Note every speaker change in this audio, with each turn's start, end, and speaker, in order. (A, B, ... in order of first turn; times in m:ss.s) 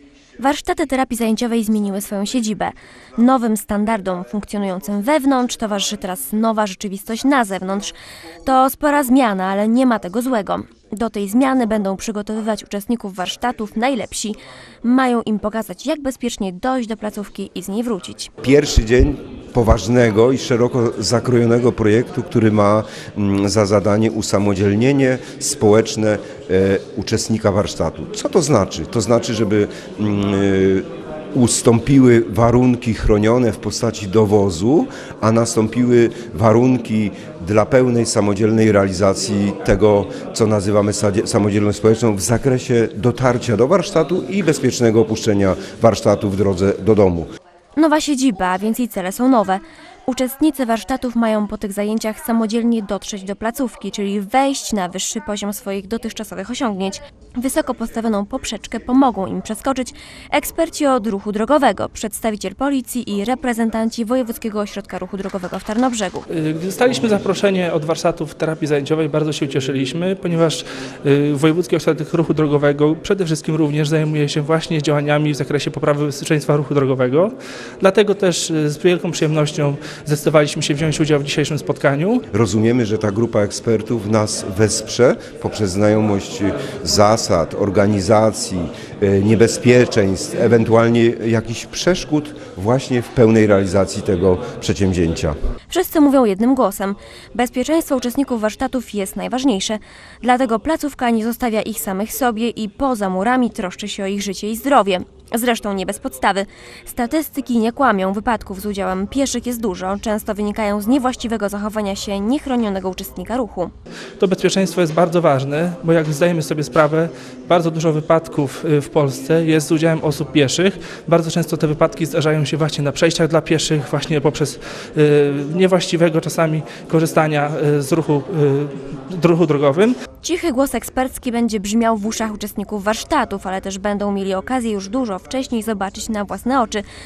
0:00.4-0:18.3 A
0:18.4-0:47.3 B
0:47.8-1:06.3 A
1:06.3-1:22.2 C
1:22.3-1:35.4 B
1:35.7-1:53.7 A
1:54.2-2:10.0 C
2:10.2-2:16.8 A